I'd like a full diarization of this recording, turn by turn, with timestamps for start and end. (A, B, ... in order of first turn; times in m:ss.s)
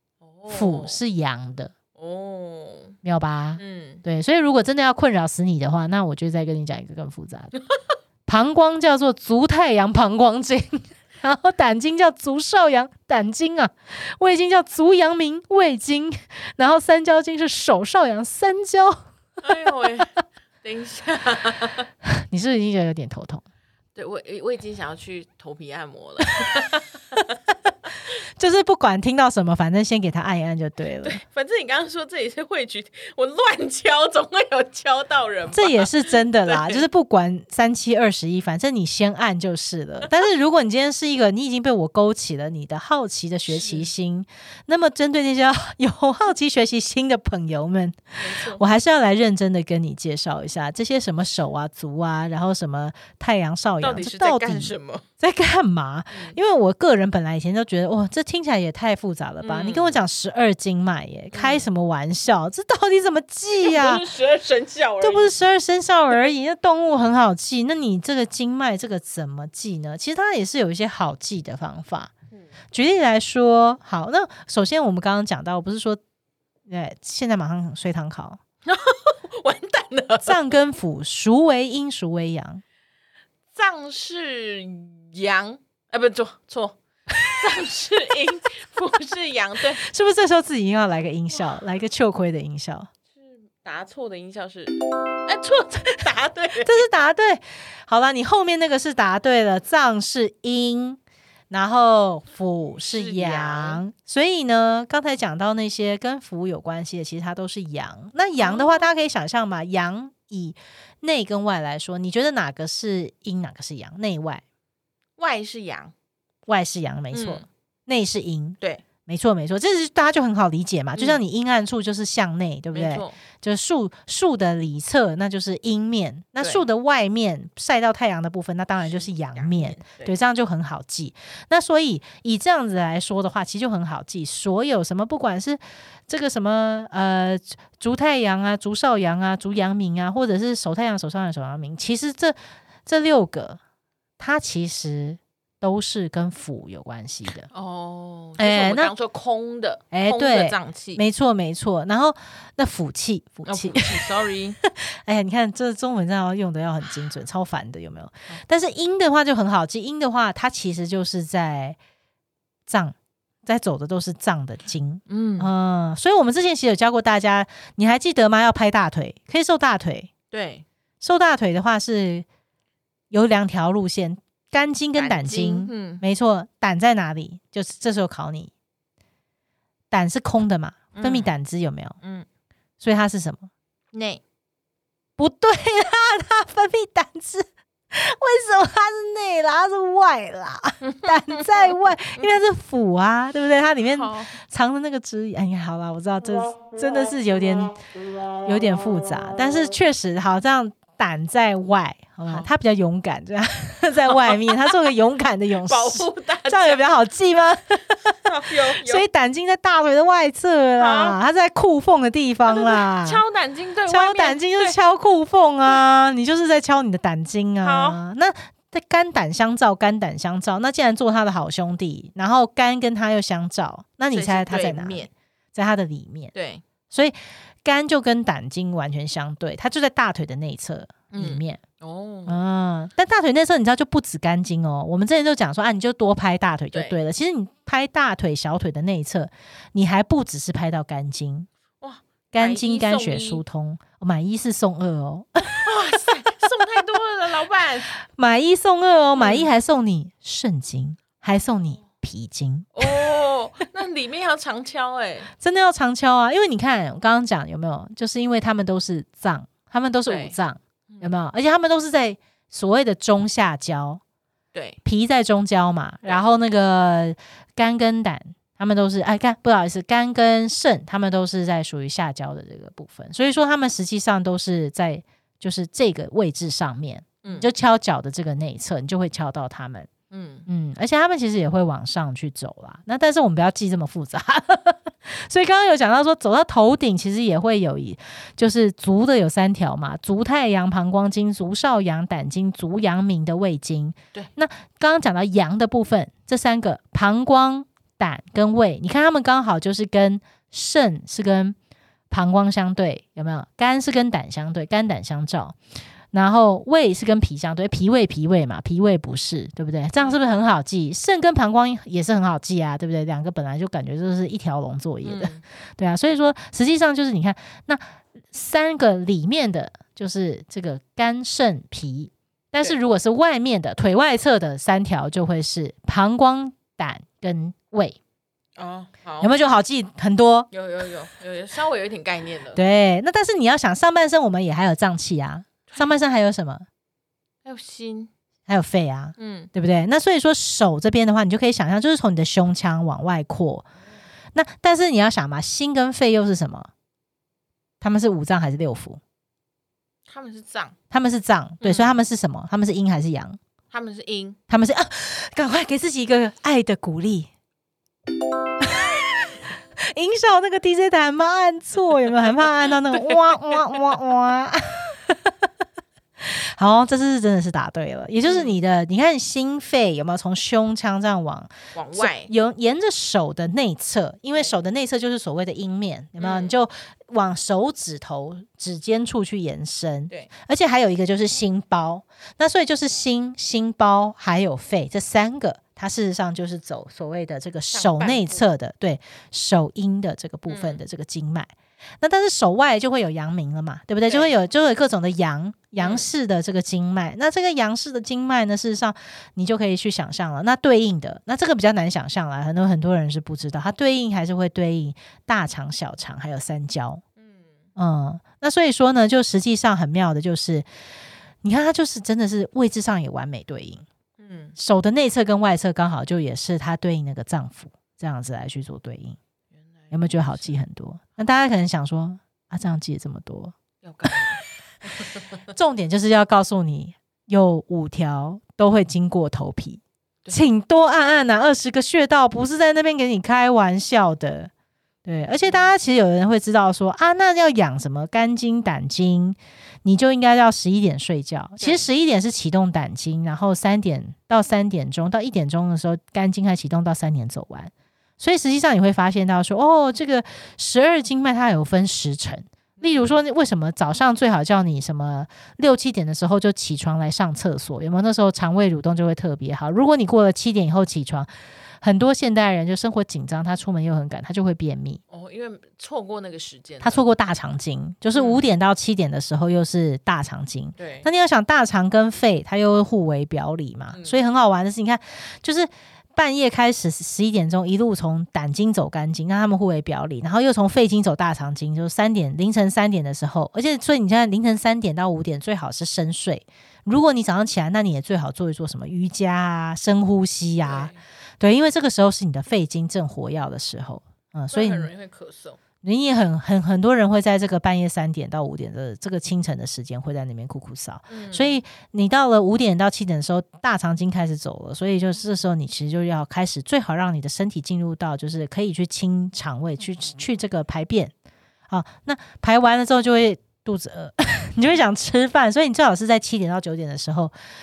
0:00.2-0:01.0 A
0:00.5-0:01.7 B
0:02.0-0:03.0 A
0:03.0-0:07.5 B
0:03.6-0:04.0 A
0:08.2-0:19.6 B
0:19.4-0:21.9 A
0:22.3-0:23.4 B
0:23.9-0:27.2 A
0:28.4-0:31.2 B
0:31.0-0:36.8 A
0:35.5-1:04.0 B
0:43.5-0:43.9 A
0:48.2-0:48.6 A
0:53.8-0:55.0 A
0:56.1-0:56.4 A
0:59.4-1:00.0 A
1:01.3-1:01.7 A
1:03.6-1:05.4 A
1:05.0-1:12.1 B
1:12.7-1:16.0 B
1:16.6-1:18.4 B
1:18.6-1:20.6 A
1:20.2-1:22.6 B
1:23.5-1:26.8 A
1:27.3-1:29.8 A
1:29.8-1:32.9 B
1:31.3-1:31.6 A
1:33.2-1:36.8 A
1:36.6-1:54.4 B
1:42.9-1:43.8 A
1:48.4-1:48.9 A
1:55.2-1:55.9 A
1:56.5-2:23.6 B
1:57.1-1:57.4 A
2:00.9-2:01.2 A
2:02.7-2:03.2 A
2:06.4-2:06.6 A
2:08.8-2:10.2 A
2:24.2-2:27.5 B
2:27.5-2:31.0 A
2:28.4-2:28.9 B
2:29.9-2:34.1 B
2:33.4-2:34.6 A
2:34.6-2:41.8 B
2:42.7-2:42.9 B
2:43.4-2:50.1 B
2:45.1-2:45.5 A
2:50.3-2:50.6 A
2:51.0-2:52.2 B
2:53.1-2:58.5 B
2:54.9-2:56.0 A
2:59.9-3:02.0 B
3:00.9-3:01.3 A
3:02.0-3:02.3 A
3:02.8-3:03.5 B
3:03.9-3:04.2 A
3:05.2-3:17.8 B
3:10.8-3:11.5 A
3:13.8-3:14.4 A
3:18.4-3:28.0 B
3:22.2-3:22.5 A
3:24.1-3:24.7 A
3:25.6-3:26.8 A
3:28.1-3:29.1 A
3:28.8-3:33.2 B
3:30.8-3:31.2 A
3:32.4-3:34.8 A
3:33.9-3:46.3 B
3:37.6-3:38.0 A
3:44.1-3:45.1 A
3:46.3-3:46.6 A
3:46.9-3:51.6 B
3:51.1-3:52.4 A
3:52.2-4:01.5 B
3:56.7-3:57.0 A
4:01.8-4:03.4 A
4:02.3-4:05.6 B
4:05.6-4:07.9 A
4:08.0-4:13.0 B
4:09.1-4:09.5 A
4:11.5-4:11.8 A
4:12.7-4:15.3 A
4:15.4-4:24.0 B
4:20.1-4:20.3 A
4:20.9-4:21.1 A
4:24.5-4:24.8 A
4:24.8-4:39.9 B
4:37.2-4:37.5 A
4:40.1-4:40.4 A
4:40.5-5:01.6 B
5:02.1-5:05.6 B
5:06.1-5:28.0 B
5:15.0-5:15.4 A
5:28.6-5:29.3 A
5:29.2-5:30.5 B
5:30.5-5:32.6 A
5:32.5-5:36.6 B
5:35.7-5:35.9 A
5:37.4-5:38.1 A
5:38.5-5:43.6 B
5:39.2-5:39.5 A
5:44.3-5:46.7 B
5:47.8-5:49.0 B
5:50.1-5:50.8 A
5:50.9-5:53.4 B
5:51.6-5:52.0 A
5:53.7-5:54.4 A
5:54.5-5:57.3 B
5:58.6-5:59.1 B
5:59.8-6:05.3 B
6:02.9-6:03.6 A
6:06.2-6:31.5 B
6:08.2-6:08.6 A
6:11.7-6:12.3 A
6:14.3-6:14.6 A
6:16.2-6:16.6 A
6:27.7-6:28.5 A
6:30.5-6:30.8 A
6:32.0-6:47.0 B
6:34.0-6:34.3 A
6:35.8-6:36.1 A
6:47.2-6:47.6 A
6:47.8-6:50.6 B
6:51.4-6:53.8 B
6:54.2-6:54.6 A
6:54.6-6:59.2 B
6:59.5-7:00.6 A
6:59.9-7:03.5 B
7:03.8-7:05.3 A
7:05.5-7:14.5 B
7:15.0-7:41.3 B
7:15.2-7:15.7 A
7:21.6-7:21.9 A
7:32.8-7:33.2 A
7:41.8-7:45.0 B
7:45.1-7:47.0 A
7:46.8-8:14.9 B
7:48.1-7:48.5 A
7:50.8-7:51.1 A
7:53.9-7:54.2 A
8:10.6-8:11.0 A
8:14.5-8:15.6 A
8:15.8-8:31.1 B
8:21.1-8:21.6 A
8:31.7-8:37.3 B